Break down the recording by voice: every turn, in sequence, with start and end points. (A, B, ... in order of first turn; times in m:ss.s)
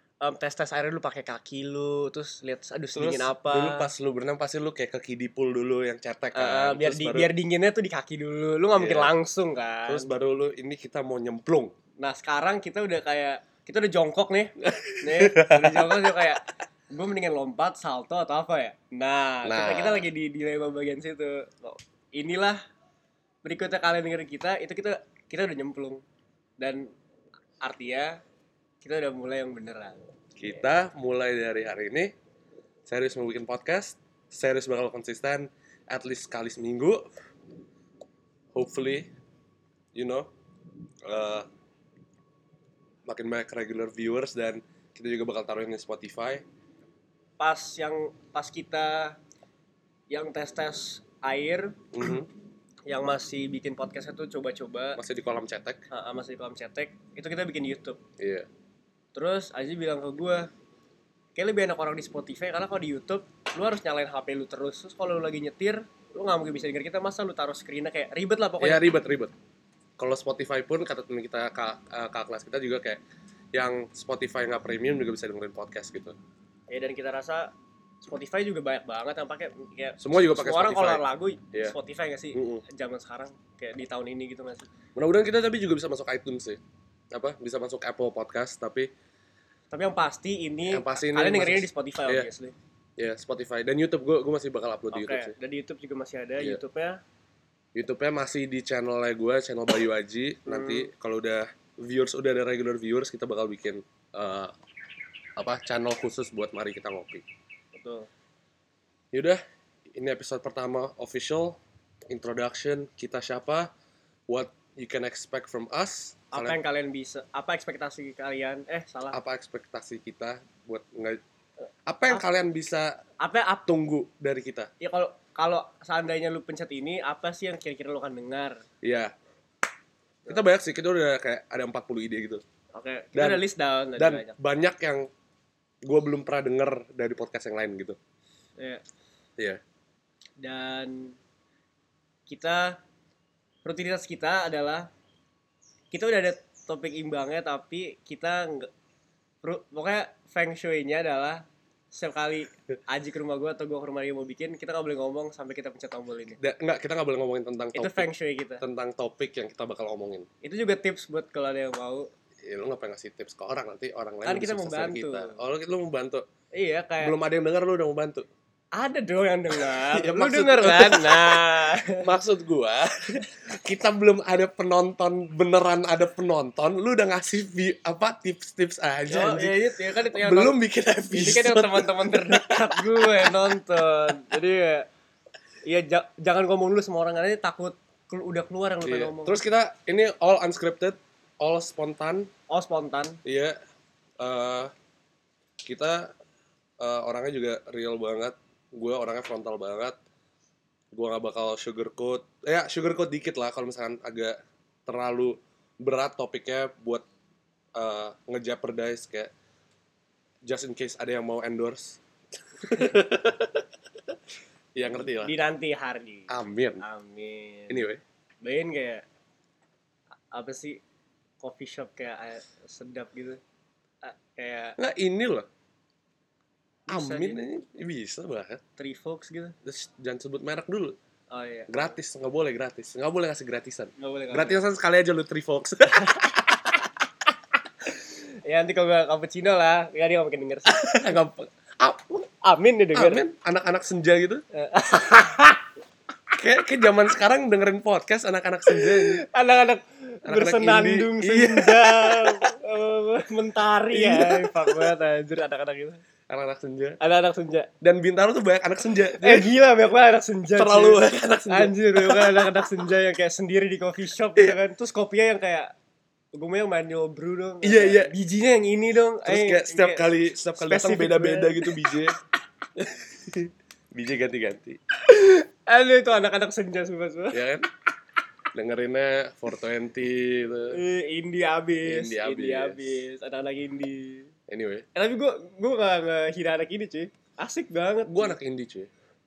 0:00.2-0:03.9 A
0:03.0-0:07.3 B
0:06.4-0:10.1 A
0:08.7-0:09.1 B
0:09.9-0:11.7 B
0:12.0-0:22.6 A
0:14.7-0:16.1 B
0:19.4-0:20.1 B
0:23.4-0:26.0 A
0:26.6-0:26.9 A
0:27.6-0:28.2 A
0:28.8-0:30.0 A
0:30.4-0:32.1 B
0:32.9-0:37.0 B
0:38.5-0:39.1 B
0:39.9-0:40.3 B
0:41.0-0:41.5 B
0:43.1-0:46.4 B
0:47.4-0:49.2 A
0:50.1-0:51.9 A
0:51.9-0:52.3 B
0:52.9-0:55.0 A
0:55.0-0:55.8 B
0:55.9-0:58.0 A
0:58.2-0:58.5 B
0:59.1-1:00.5 A
1:01.4-1:08.9 A
1:08.6-1:09.3 B
1:10.0-1:13.0 B
1:13.5-1:16.2 B
1:16.7-1:17.5 A
1:18.0-1:24.7 A
1:20.0-1:21.7 B
1:22.4-1:22.6 B
1:25.0-1:26.6 B
1:27.1-1:28.9 B
1:29.7-1:32.6 A
1:30.7-1:32.3 B
1:33.0-1:35.3 B
1:34.9-1:37.0 A
1:37.8-1:44.5 B
1:40.5-1:40.9 A
1:45.4-1:47.2 B
1:47.7-1:48.1 A
1:49.1-1:49.4 B
1:50.0-1:51.6 B
1:52.1-1:53.7 B
1:54.3-1:56.6 B
1:56.3-1:59.2 A
1:59.1-2:01.2 B
2:01.9-2:02.9 B
2:03.2-2:03.7 A
2:03.7-2:04.7 B
2:04.8-2:08.6 A
2:08.8-2:09.1 B
2:10.3-2:12.4 B
2:12.7-2:14.4 A
2:13.2-2:13.4 B
2:14.0-2:15.1 B
2:15.8-2:18.0 B
2:18.6-2:18.8 A
2:20.4-2:21.2 A
2:22.3-2:22.8 A
2:23.6-2:24.9 A
2:25.9-2:28.7 A
2:29.4-2:36.4 A
2:36.4-2:38.1 B
2:37.7-2:38.6 A
2:38.6-2:40.3 B
2:40.4-2:42.1 A
2:42.4-2:46.2 B
2:44.2-2:45.4 A
2:46.6-2:47.2 A
2:47.0-2:48.3 B
2:48.8-2:52.1 A
2:49.7-3:03.5 B
2:59.1-3:00.6 A
3:01.1-3:04.9 A
3:05.6-3:09.4 A
3:08.8-3:12.3 B
3:12.5-3:13.2 A
3:13.2-3:13.6 B
3:14.2-3:14.7 B
3:15.6-3:16.1 B
3:16.8-3:20.0 B
3:20.9-3:27.0 B
3:27.8-3:29.3 B
3:30.5-3:32.0 B
3:32.6-3:33.7 B
3:34.8-3:35.3 B
3:35.1-3:37.8 A
3:36.3-3:36.8 B
3:37.7-3:38.0 B
3:38.4-3:39.0 A
3:40.3-3:40.8 A
3:41.4-3:43.4 A
3:44.0-3:44.8 A
3:44.8-3:45.5 B
3:46.9-3:47.4 A
3:46.9-3:48.6 B
3:48.8-3:49.6 A
3:49.6-3:51.0 B
3:51.3-3:52.0 A
3:51.7-3:56.8 B
3:54.0-3:54.6 A
3:57.9-4:01.1 A
4:00.7-4:02.2 B
4:02.4-4:03.2 A
4:02.9-4:04.4 B
4:04.5-4:05.6 A
4:06.3-4:09.2 B
4:08.7-4:16.0 A
4:10.2-4:12.4 B
4:13.9-4:15.0 B
4:16.3-4:17.0 B
4:17.0-4:17.7 A
4:17.8-4:19.5 B
4:19.1-4:25.7 A
4:20.6-4:22.7 B
4:26.3-4:31.8 A
4:27.6-4:28.1 B
4:29.2-4:32.2 B
4:32.8-4:34.8 B
4:35.0-4:37.4 A
4:37.3-4:37.7 B
4:38.5-4:40.8 B
4:40.7-4:44.3 A
4:41.9-4:43.0 B
4:44.5-4:44.9 B
4:45.0-4:48.4 A
4:48.1-4:48.9 B